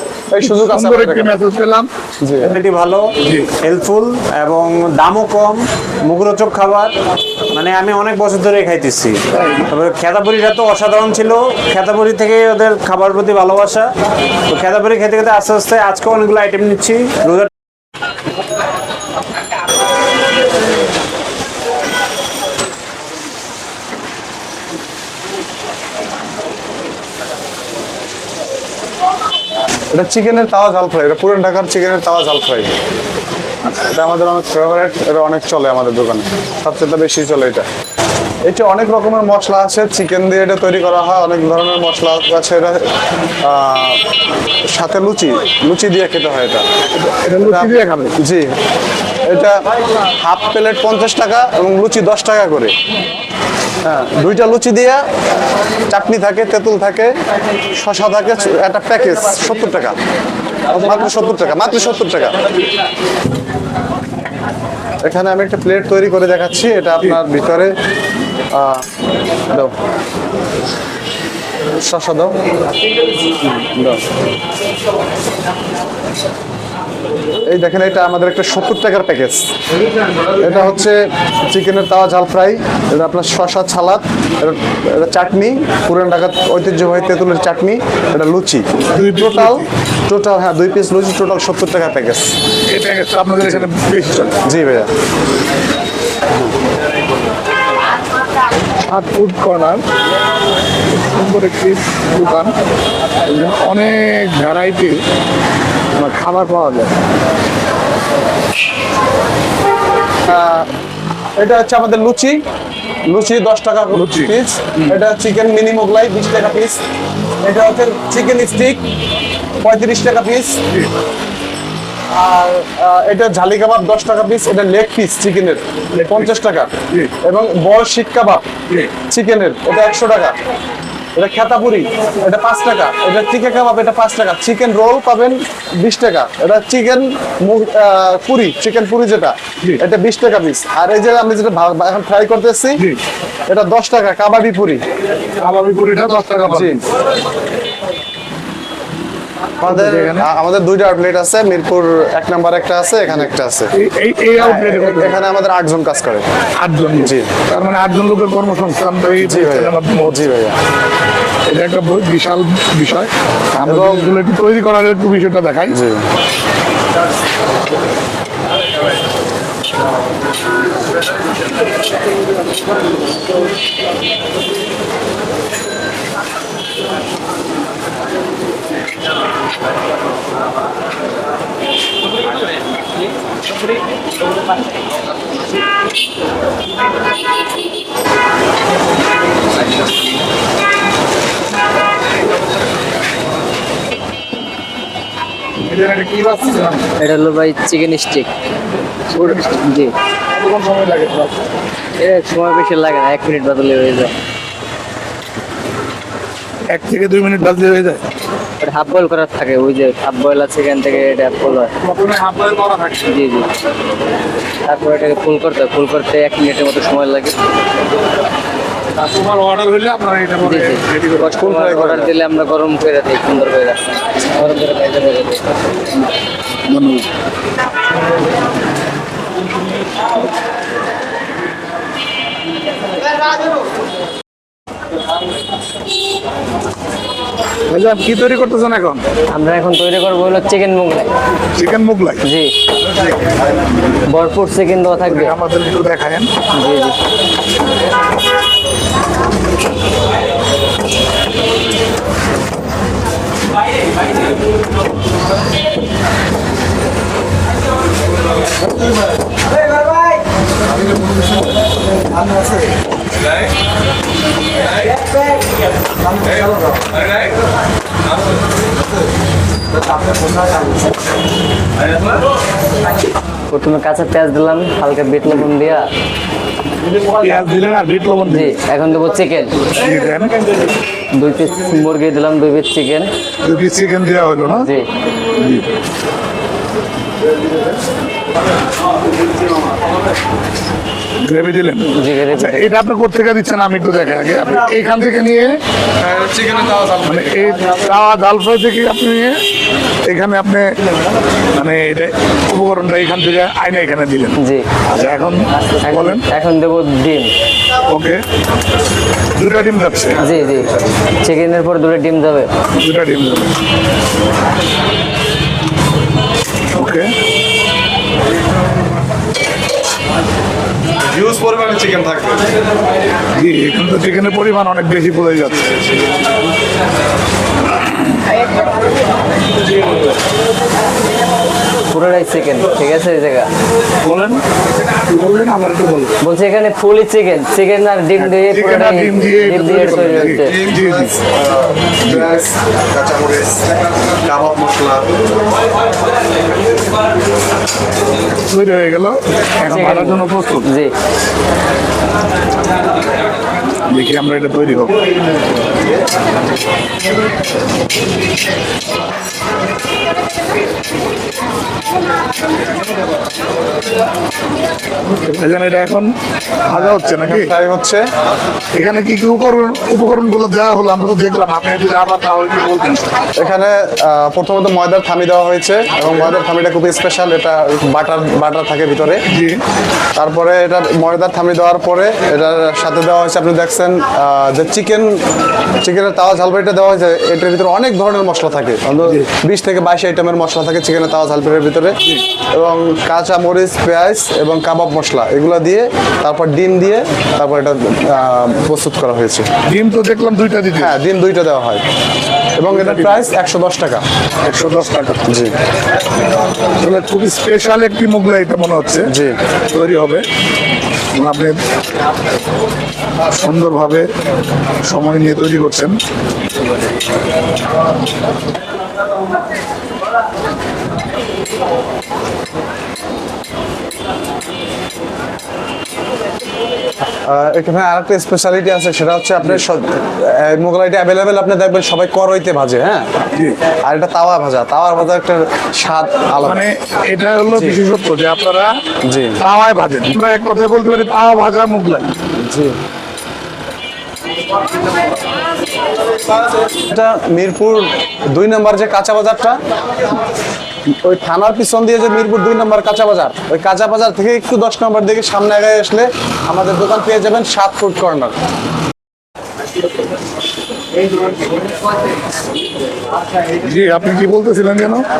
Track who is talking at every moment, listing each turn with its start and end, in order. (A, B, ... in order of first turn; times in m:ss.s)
0:00.3-0:01.3 A
0:00.4-0:01.9 B
0:02.2-0:02.5 A
0:02.4-0:03.1 C
0:03.2-0:03.5 B
0:03.6-0:06.9 C
0:07.5-0:09.2 C
0:09.3-0:09.7 B
0:09.7-0:13.9 C
0:14.5-0:17.5 C
0:29.9-0:32.7 A
0:33.6-0:37.6 A
0:38.4-0:42.9 A
0:43.4-0:44.0 A
0:44.7-0:46.6 A
0:46.9-0:48.2 B
0:47.4-0:48.4 A
0:49.3-0:49.6 A
0:50.2-0:52.7 A
0:53.8-0:55.0 A
0:55.9-0:57.1 A
0:57.7-1:00.0 A
1:00.7-1:02.4 A
1:05.0-1:07.7 A
1:08.5-1:08.8 A
1:11.8-1:12.4 A
1:13.5-1:14.0 A
1:17.5-1:19.4 A
1:20.4-1:32.3 A
1:28.9-1:29.7 B
1:32.7-1:34.4 B
1:34.4-1:34.9 A
1:38.9-1:39.8 B
1:40.9-1:42.5 B
1:43.3-1:45.0 B
1:46.0-1:46.9 B
1:50.3-1:50.7 A
1:51.4-1:52.4 A
1:53.1-1:56.8 A
1:53.9-1:55.0 B
1:57.4-1:58.8 A
1:59.6-2:00.6 A
2:02.1-2:08.5 A
2:05.9-2:06.3 B
2:09.1-2:10.4 A
2:11.2-2:22.8 A
2:23.5-2:24.8 A
2:25.4-2:26.8 B
2:26.5-2:26.8 A
2:29.6-2:33.7 A
2:29.6-2:30.3 B
2:33.7-2:35.2 B
2:34.4-2:36.2 A
2:36.6-2:40.2 B
2:37.0-2:37.3 A
2:39.2-2:40.6 A
2:41.5-2:45.8 B
2:43.6-2:44.1 A
2:45.7-2:46.0 A
3:15.6-3:16.9 B
3:17.0-3:18.3 D
3:19.1-3:19.8 B
3:19.7-3:19.9 D
3:20.3-3:21.4 B
3:22.0-3:24.1 D
3:26.7-3:28.0 B
3:28.6-3:31.7 D
3:31.8-3:33.2 B
3:33.1-3:33.5 D
3:34.6-3:37.4 D
3:39.0-3:41.4 B
3:40.4-3:45.5 D
3:41.3-3:42.1 A
3:46.7-3:47.1 B
3:57.7-3:59.0 B
3:59.3-4:01.1 D
4:01.5-4:02.2 B
4:02.2-4:02.5 D
4:04.1-4:05.3 D
4:05.0-4:06.3 B
4:06.5-4:07.0 D
4:33.5-4:35.9 D
4:37.2-4:38.6 B
4:38.3-4:39.7 D
4:39.7-4:40.3 B
4:41.1-4:43.1 D
4:43.4-4:44.7 B
4:44.6-4:44.9 D
4:45.4-4:45.6 B
4:51.2-4:55.5 B
4:51.9-4:52.7 D
4:56.0-4:57.3 A
4:57.0-4:59.4 B
5:00.0-5:00.7 B
5:01.5-5:06.2 B
5:04.4-5:04.7 D
5:05.6-5:07.3 D
5:07.9-5:08.2 B
5:09.3-5:10.2 B
5:10.2-5:12.5 D
5:12.8-5:13.5 B
5:16.7-5:17.1 B
5:21.1-5:22.4 A
5:23.3-5:25.7 B
5:31.9-5:33.5 D
5:34.0-5:34.4 B
5:35.1-5:36.1 B
5:36.2-5:40.5 D
5:38.2-5:41.1 B
5:39.8-5:45.0 A
5:42.0-5:42.4 B
5:48.5-5:50.7 B
5:49.7-5:50.9 D
5:53.9-5:55.0 B
6:05.1-6:06.1 B
6:06.6-6:07.5 B
6:06.7-6:08.0 A
6:08.7-6:13.1 B
6:13.4-6:19.2 A
6:19.3-6:19.6 B
6:20.2-6:25.2 A
6:25.8-6:32.0 A
6:32.5-6:39.5 A
6:39.6-6:40.9 B
6:40.8-6:41.8 A
6:42.6-6:44.0 A
6:42.7-6:43.2 B
6:44.4-6:45.2 B
6:45.3-6:45.5 A
6:46.8-6:49.1 B
6:49.1-6:49.4 A
6:49.7-6:50.2 B
6:51.1-6:51.6 B
6:53.3-6:54.1 B
6:54.8-6:56.0 B
7:07.2-7:13.1 A
7:13.2-7:13.6 B
7:13.8-7:16.6 A
7:16.4-7:18.7 B
7:17.5-7:17.8 A
7:19.0-7:19.4 A
7:19.4-7:22.1 B
7:22.4-7:22.7 A
7:26.7-7:29.6 A
7:31.0-7:38.3 A
7:43.6-7:45.0 B